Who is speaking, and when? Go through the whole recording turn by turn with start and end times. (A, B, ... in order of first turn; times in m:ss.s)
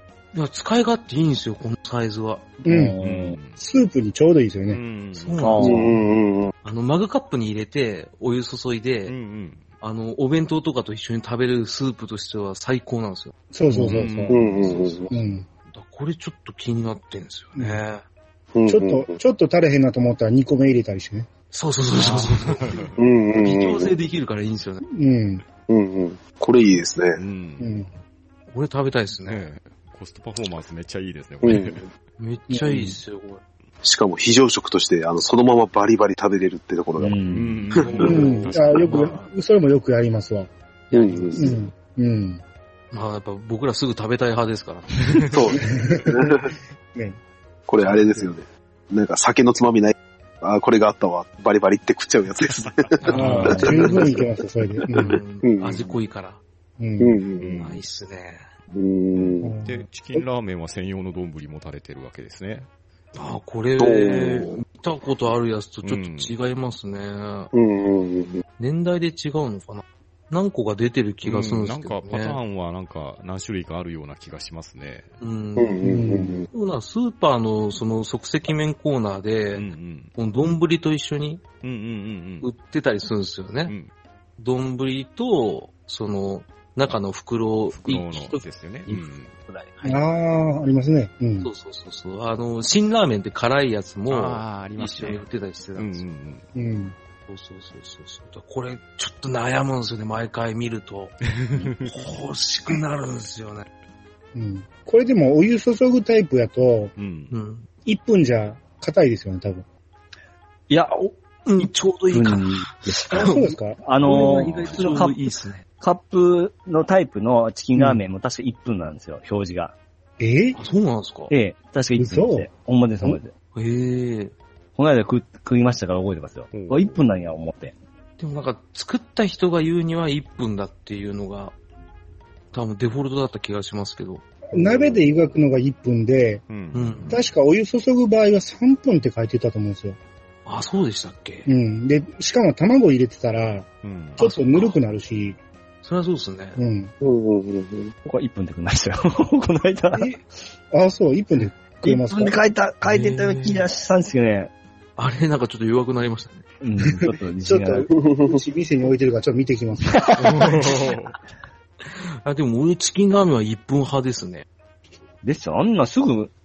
0:00.3-0:02.5 A
0:02.6-0:03.0 B
0:02.6-0:03.4 C
0:03.0-0:03.6 D
0:03.6-0:04.8 B
0:04.7-0:05.6 D
0:05.1-0:05.8 A
0:05.4-0:06.0 C
0:05.6-0:06.5 E
0:06.6-0:09.1 A
0:09.1-0:09.6 D
0:09.8-0:13.3 A
0:13.5-0:14.4 B
0:13.7-0:15.0 D
0:14.3-0:15.1 E
0:14.6-0:18.0 A
0:15.1-0:15.4 B
0:17.6-0:17.8 B
0:18.5-0:19.2 E
0:18.7-0:21.3 B
0:21.5-0:24.8 A
0:22.0-0:23.0 D
0:23.0-0:23.9 E
0:24.8-0:25.4 B
0:25.7-0:27.2 E
0:27.2-0:27.9 D
0:27.6-0:27.9 B
0:28.5-0:29.4 A
0:29.2-0:31.9 D
0:31.4-0:31.8 E
0:32.2-0:33.4 A
0:32.5-0:32.9 B
0:33.8-0:37.2 E
0:37.0-0:37.5 C
0:37.2-0:39.2 D
0:37.7-0:38.1 E
0:37.8-0:39.3 A
0:38.0-0:40.5 B
0:40.9-0:41.6 A
0:40.9-0:41.6 E
0:41.3-0:42.4 B
0:42.9-0:45.3 A
0:45.3-0:46.5 E
0:45.6-0:46.3 B
0:47.7-0:54.2 E
0:48.0-0:48.3 A
0:52.5-0:53.6 D
0:53.0-0:54.2 A
0:53.1-0:55.2 B
0:53.2-0:53.7 C
0:54.9-0:56.4 A
0:55.4-0:55.9 E
0:56.8-0:57.2 B
0:57.0-0:57.6 E
0:57.4-0:57.8 D
0:57.6-0:58.4 A
0:58.7-0:59.5 E
0:59.1-1:02.7 D
0:59.4-1:00.2 B
1:03.1-1:07.5 A
1:03.8-1:04.6 E
1:05.8-1:06.3 D
1:07.5-1:08.4 E
1:08.6-1:12.4 A
1:11.2-1:15.1 D
1:15.2-1:15.8 A
1:15.6-1:16.5 E
1:15.8-1:16.4 B
1:16.5-1:21.4 A
1:19.5-1:20.1 D
1:21.6-1:22.5 D
1:22.4-1:23.7 A
1:24.4-1:30.0 A
1:27.7-1:29.3 D
1:29.8-1:31.5 B
1:31.4-1:36.0 A
1:34.1-1:35.2 D
1:35.8-1:36.4 D
1:36.5-1:36.9 B
1:37.3-1:43.6 A
1:41.3-1:42.0 D
1:44.3-1:46.9 B
1:47.0-1:47.3 D
1:47.3-1:47.6 A
1:47.8-1:49.6 B
1:50.7-1:55.3 C
1:51.4-1:55.6 A
1:53.1-1:53.8 B
1:55.8-1:59.7 C
2:00.2-2:00.6 B
2:00.5-2:01.3 A
2:01.3-2:03.3 C
2:02.0-2:02.5 B
2:03.5-2:04.3 A
2:04.8-2:07.7 C
2:06.5-2:07.1 D
2:08.2-2:11.5 A
2:12.5-2:14.2 A
2:14.5-2:16.4 B
2:14.6-2:15.0 D
2:16.5-2:17.2 D
2:16.7-2:17.2 A
2:17.1-2:20.0 B
2:20.4-2:21.5 A
2:21.4-2:25.4 B
2:23.8-2:24.3 D
2:24.2-2:24.8 A
2:25.8-2:26.6 A
2:26.6-2:26.9 B
2:27.0-2:27.9 E
2:28.0-2:30.1 C
2:30.7-2:32.4 B
2:31.8-2:34.5 C
2:32.8-2:33.6 A
2:35.0-2:36.4 A
2:36.6-2:37.9 C
2:36.9-2:40.1 B
2:37.9-2:38.4 E
2:39.8-2:40.7 C
2:40.2-2:41.1 D
2:41.8-2:44.4 A
2:45.2-2:46.3 C